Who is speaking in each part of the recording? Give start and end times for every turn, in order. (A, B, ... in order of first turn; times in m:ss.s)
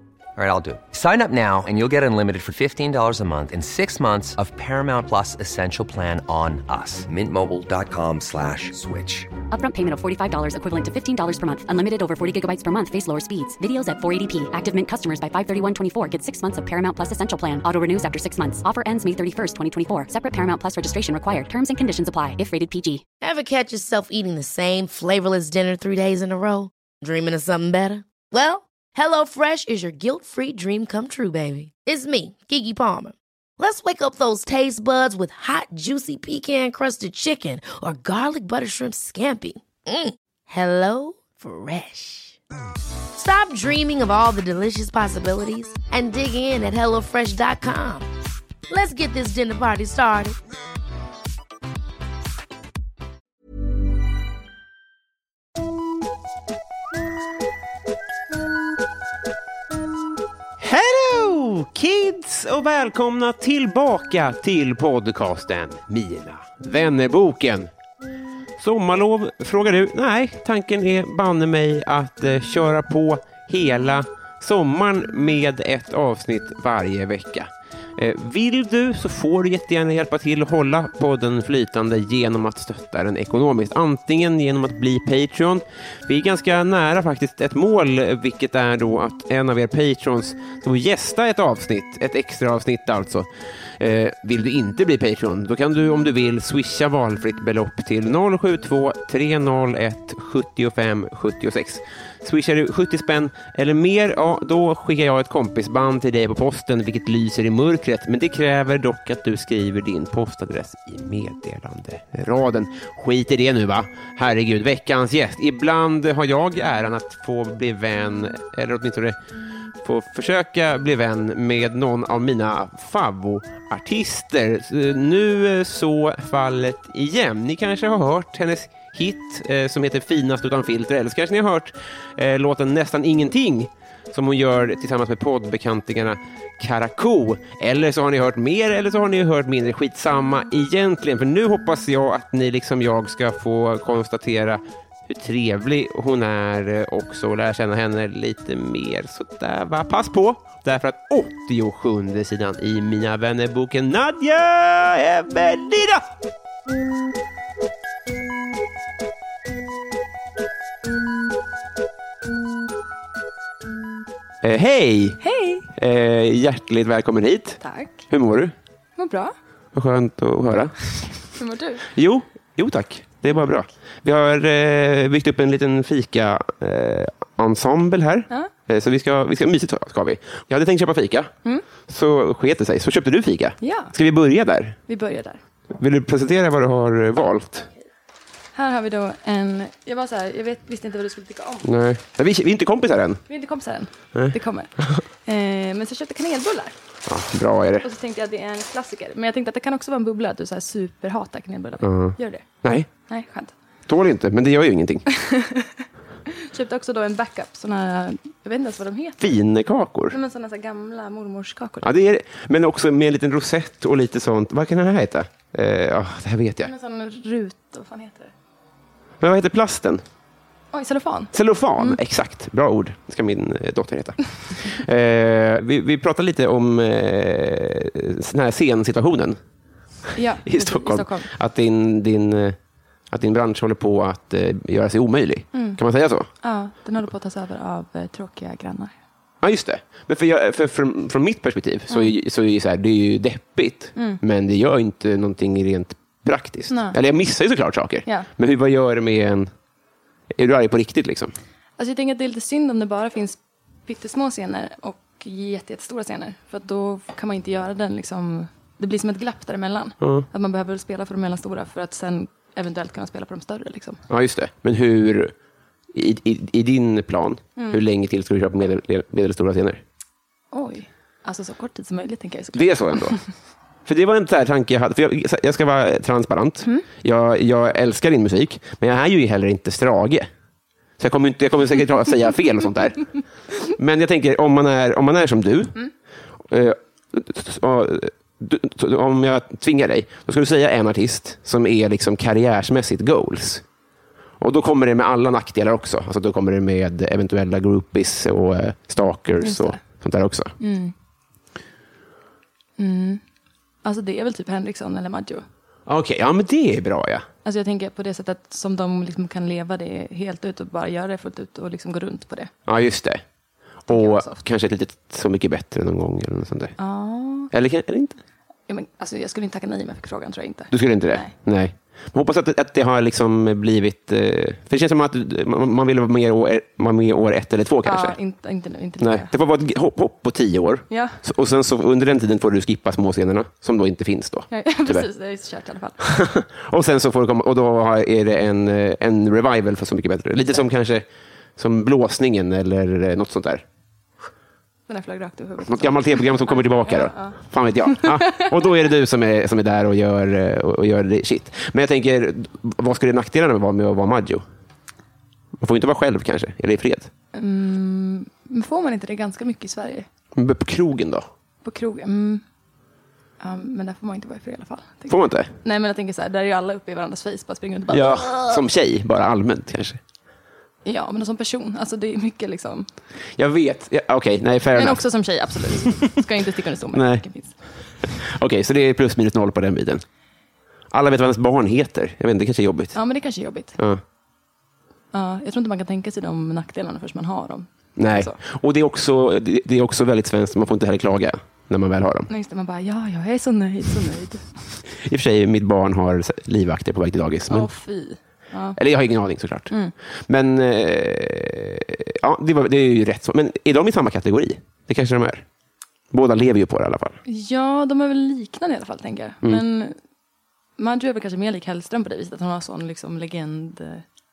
0:00.4-0:09.3 A
0:09.5-0:23.0 B
0:23.2-0:42.4 C
0:43.2-0:48.1 C
0:48.7-0:50.4 C
1:00.6-1:07.7 D
1:08.6-1:59.2 D
1:59.8-2:36.1 D
2:44.4-2:45.2 D
2:45.2-2:45.7 E
2:45.7-2:47.6 D
2:47.6-2:48.0 E
2:48.1-2:48.6 D
2:49.0-2:49.3 E
2:49.7-2:50.8 D
2:51.4-2:51.9 E
2:51.9-3:01.3 D
3:01.9-3:04.8 D
3:03.6-3:03.9 E
3:04.9-3:05.4 E
3:05.7-3:07.7 D
3:08.6-3:11.7 E
3:11.6-3:13.2 D
3:13.3-3:16.8 E
3:14.1-3:15.0 D
3:17.1-3:17.9 D
3:17.8-3:22.5 E
3:21.8-3:22.9 D
3:23.1-3:23.5 E
3:23.9-3:25.1 D
3:25.1-3:29.4 E
3:29.2-3:30.2 D
3:30.1-3:31.9 E
3:31.8-3:36.7 D
3:36.6-3:38.3 E
3:39.2-3:40.0 D
3:40.7-3:42.0 E
3:41.3-3:49.4 D
3:50.2-3:51.3 E
3:50.4-3:52.6 D
3:53.1-3:56.3 D
3:55.5-3:55.8 E
3:56.4-3:58.9 E
3:59.4-4:09.5 D
4:04.0-4:04.2 E
4:06.7-4:07.0 E
4:10.3-4:11.3 D
4:11.8-4:24.0 E
4:20.0-4:20.3 D
4:24.1-4:25.3 D
4:25.9-4:29.8 D
4:27.6-4:27.8 E
4:30.5-4:33.2 E
4:32.5-4:33.2 D
4:33.8-4:40.3 D
4:41.0-4:43.1 D
4:43.7-4:45.8 D
4:46.5-4:53.6 D
4:54.4-5:00.5 D
4:59.4-4:59.8 E
5:00.6-5:00.9 E
5:02.8-5:03.2 E
5:03.8-5:05.4 E
5:05.9-5:07.3 D
5:07.4-5:12.5 E
5:12.7-5:13.2 D
5:13.9-5:16.8 D
5:13.9-5:14.4 E
5:16.8-5:17.5 E
5:17.5-5:18.2 D
5:18.7-5:21.3 E
5:20.7-5:28.2 D
5:27.8-5:29.3 E
5:29.0-5:35.1 D
5:30.9-5:31.2 E
5:34.5-5:36.1 E
5:36.0-5:41.1 D
5:41.6-5:43.6 D
5:44.9-5:48.7 E
5:45.6-5:54.4 D
5:55.6-5:57.1 D
5:57.3-6:00.1 E
6:00.4-6:01.2 D
6:01.6-6:02.4 E
6:03.4-6:08.6 E
6:05.1-6:05.5 D
6:07.9-6:10.0 D
6:10.8-6:12.9 E
6:13.4-6:15.0 D
6:14.7-6:17.6 E
6:16.9-6:17.2 D
6:18.0-6:20.0 D
6:20.9-6:23.0 D
6:23.0-6:23.8 E
6:25.1-6:28.4 E
6:28.0-6:32.3 D
6:32.3-6:34.4 E
6:34.9-6:37.7 D
6:37.5-6:38.8 E
6:38.8-6:39.7 D
6:40.3-6:45.4 D
6:46.1-6:47.2 D
6:47.3-6:50.0 E
6:50.8-6:54.0 E